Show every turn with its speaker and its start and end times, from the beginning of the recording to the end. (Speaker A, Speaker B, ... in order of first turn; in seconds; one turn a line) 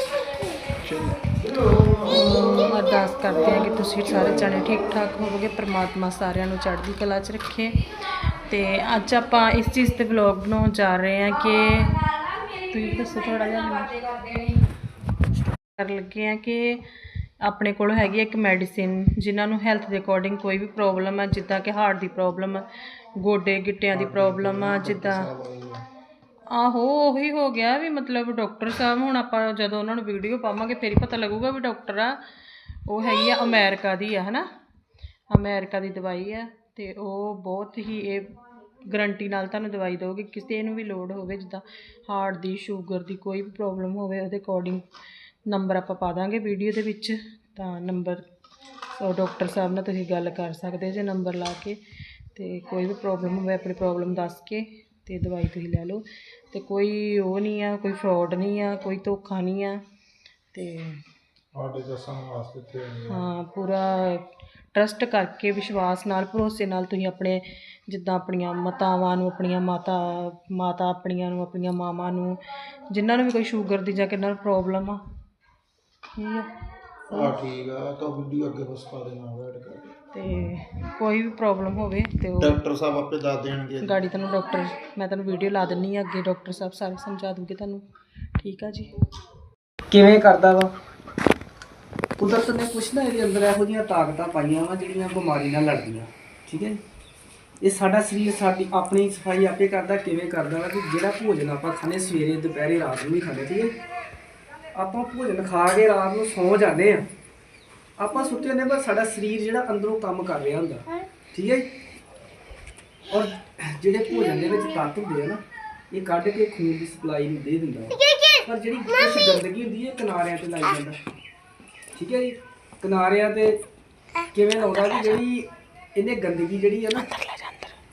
Speaker A: 0.8-2.7
Speaker B: 2.0-7.8
Speaker A: 3.3-4.7
Speaker B: 8.3-14.1
Speaker B: 15.8-16.8
Speaker B: 17.4-22.6
Speaker B: 23.2-25.3
Speaker A: 23.9-25.8
Speaker B: 26.5-32.2
Speaker B: 32.9-34.5
Speaker B: 35.3-38.3
Speaker B: 38.9-44.8
Speaker B: 45.5-48.2
Speaker B: 49.0-51.8
Speaker B: 52.3-59.8
Speaker B: 60.5-61.0
Speaker A: 61.5-63.2
Speaker B: 63.1-72.4
Speaker B: 72.9-75.0
Speaker B: 76.1-76.5
Speaker B: 77.1-77.4
Speaker A: 77.1-79.9
Speaker B: 80.1-82.6
Speaker A: 82.4-84.0
Speaker B: 83.8-87.8
Speaker B: 88.4-88.9
Speaker C: 89.9-90.7
Speaker C: 92.2-96.8
Speaker C: 97.6-103.7
Speaker C: 104.8-107.1
Speaker C: 108.0-111.7
Speaker C: 113.1-121.0
Speaker C: 121.9-123.6
Speaker C: 124.3-127.1
Speaker B: 126.9-127.8